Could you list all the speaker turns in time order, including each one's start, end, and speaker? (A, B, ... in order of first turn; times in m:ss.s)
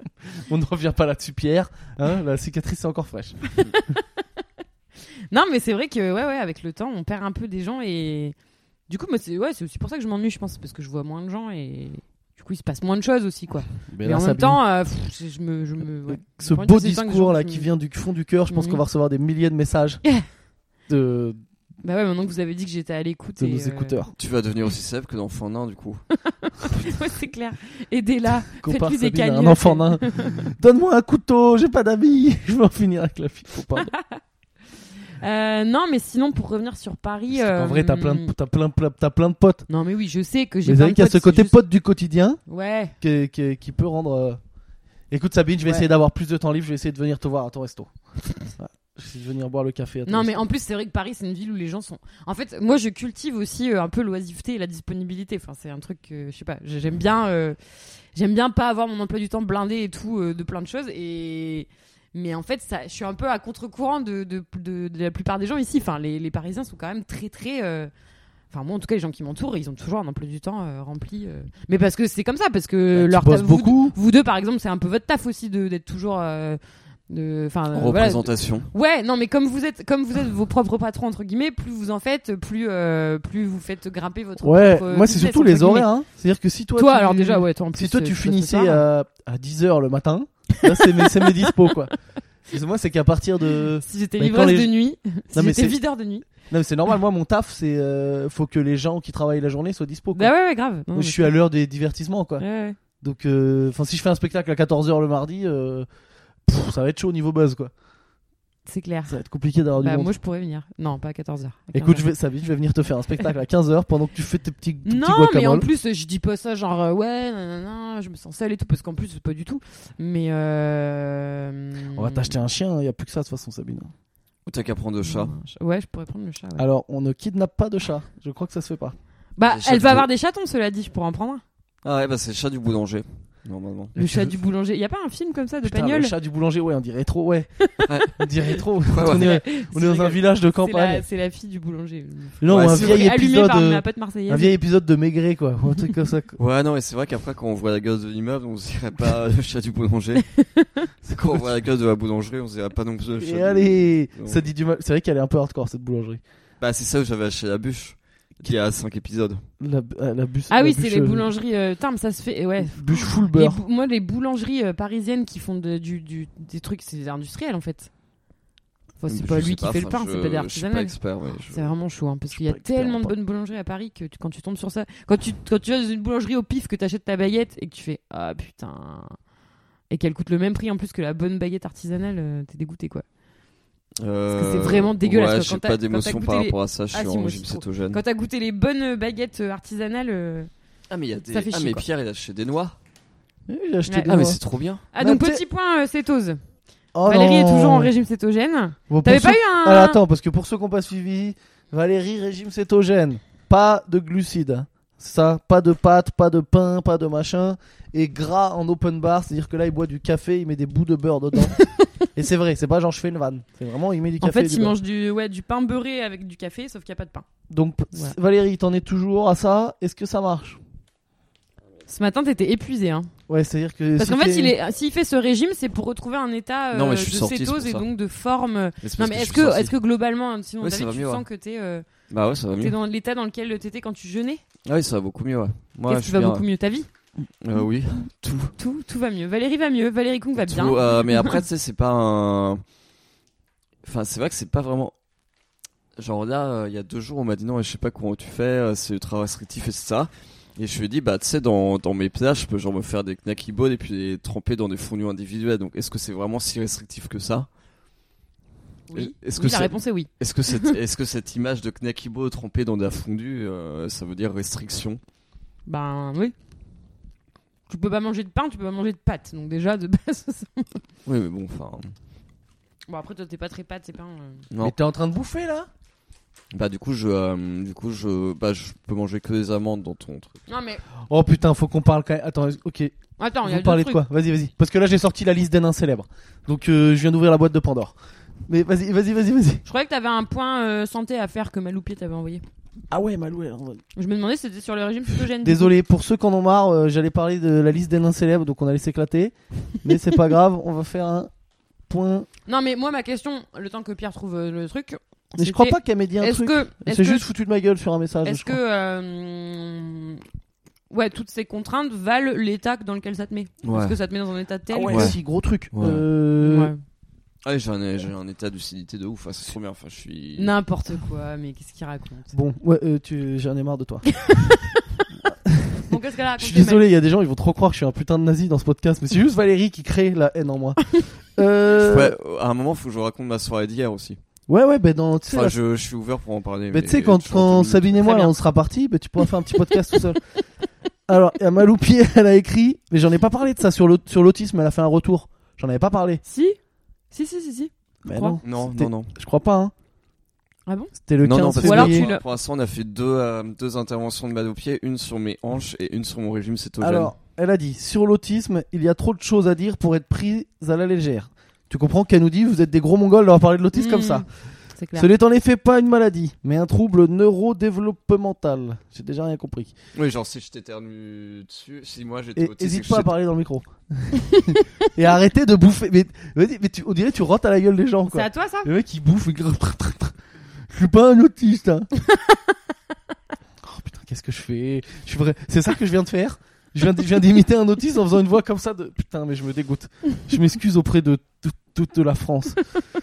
0:00.5-0:03.4 A
0:03.6-0:04.0 B
0:05.3-0:08.3 B
0:08.9-0:17.7 B
0:13.9-0:14.6 A
0:16.1-0:20.0 A
0:18.5-0:18.8 B
0:20.9-0:21.4 A
0:21.8-0:24.0 B
0:23.4-0:24.1 A
0:24.2-0:26.0 C
0:26.3-0:30.4 B
0:28.5-0:33.9 A
0:33.8-0:34.2 B
0:35.2-0:38.3 B
0:37.3-0:39.6 A
0:39.7-0:41.6 B
0:40.6-0:42.4 A
0:42.5-0:42.9 B
0:43.0-0:44.4 A
0:45.1-0:47.9 A
0:48.6-0:50.4 A
0:50.0-0:57.6 B
0:58.1-1:07.9 B
1:08.5-1:25.9 B
1:12.9-1:14.0 A
1:17.7-1:18.7 C
1:24.4-1:31.9 A
1:26.8-1:28.8 B
1:30.7-1:31.5 B
1:32.5-1:34.7 A
1:33.8-1:36.3 B
1:35.3-1:40.3 A
1:40.1-1:41.3 B
1:40.9-1:42.4 A
1:42.4-1:42.8 B
1:43.0-1:45.9 A
1:46.4-1:47.7 A
1:48.6-1:49.2 B
1:49.1-1:50.1 A
1:49.8-1:52.0 B
1:51.7-1:55.6 A
1:54.8-2:02.3 B
2:01.9-2:03.9 A
2:04.4-2:05.3 C
2:05.0-2:06.6 B
2:06.6-2:09.0 A
2:09.4-2:11.4 B
2:09.4-2:10.1 C
2:11.8-2:14.0 C
2:13.9-2:16.1 B
2:14.0-2:14.3 A
2:15.6-2:17.5 A
2:17.9-2:18.2 C
2:18.1-2:21.0 A
2:18.9-2:19.4 C
2:19.0-2:24.5 B
2:22.4-2:26.4 A
2:22.5-2:23.1 C
2:26.4-2:30.2 C
2:30.3-2:30.8 B
2:31.1-2:31.4 A
2:31.1-2:34.4 C
2:33.2-2:36.2 A
2:36.6-2:39.4 C
2:39.6-2:41.2 A
2:40.5-2:47.9 B
2:42.6-2:43.6 A
2:49.0-2:51.0 B
2:49.1-2:51.7 C
2:51.5-2:59.2 B
2:52.4-2:53.1 A
2:59.9-3:03.0 B
3:04.0-3:08.0 C
3:04.3-3:10.5 B
3:10.9-3:12.8 C
3:11.3-3:11.8 B
3:13.5-3:14.4 A
3:14.0-3:14.8 C
3:14.9-3:16.4 B
3:15.0-3:15.4 A
3:16.9-3:17.9 A
3:17.0-3:20.0 B
3:18.9-3:31.6 A
3:32.1-3:34.7 A
3:34.2-3:37.2 B
3:37.5-3:40.6 A
3:41.9-3:43.1 B
3:43.3-3:44.5 A
3:44.0-3:51.8 B
3:46.7-3:47.8 C
3:48.8-3:49.7 C
3:50.6-3:51.2 C
3:52.1-3:52.8 C
3:52.6-3:54.4 B
3:54.6-3:56.4 C
3:55.9-3:56.9 B
3:57.4-3:58.5 C
3:58.6-4:01.4 B
4:00.4-4:02.6 C
4:03.8-4:04.9 C
4:06.0-4:17.5 C
4:18.9-4:20.7 B
4:18.9-4:25.0 C
4:25.6-4:26.3 B
4:27.7-4:30.8 B
4:31.0-4:31.9 C
4:32.9-4:34.4 B
4:34.6-4:35.7 A
4:36.5-4:40.4 C
4:40.5-4:40.8 B
4:41.1-4:47.9 A
4:43.2-4:44.0 B
4:48.5-4:49.6 A
4:49.6-4:52.4 B
4:52.9-4:53.8 A
4:54.0-4:55.7 B
4:55.4-5:01.3 A
5:01.9-5:02.3 A
5:02.5-5:07.3 B
5:05.4-5:08.6 A
5:08.2-5:10.2 B
5:10.9-5:15.1 B
5:13.6-5:14.0 C
5:14.7-5:16.7 A
5:14.9-5:15.2 C
5:15.7-5:16.0 C
5:16.4-5:16.8 B
5:17.4-5:20.5 C
5:20.4-5:22.3 B
5:22.3-5:24.1 A
5:24.2-5:25.0 B
5:25.3-5:32.1 A
5:25.9-5:26.8 B
5:31.7-5:34.2 C
5:34.5-5:35.6 A
5:35.3-5:38.0 C
5:36.7-5:40.2 A
5:38.0-5:38.3 B
5:41.1-5:46.2 A
5:46.2-5:46.6 B
5:47.1-5:48.4 B
5:48.0-5:49.7 A
5:48.4-5:49.1 C
5:50.7-5:50.9 B
5:51.0-5:52.1 A
5:51.2-5:57.1 C
5:51.6-5:52.2 B
5:56.8-6:04.2 A
6:03.7-6:04.2 B
6:04.8-6:05.1 B
6:04.9-6:09.7 A
6:09.9-6:13.1 C
6:12.4-6:20.2 A
6:18.1-6:18.7 B
6:20.7-6:21.9 A
6:23.6-6:32.6 A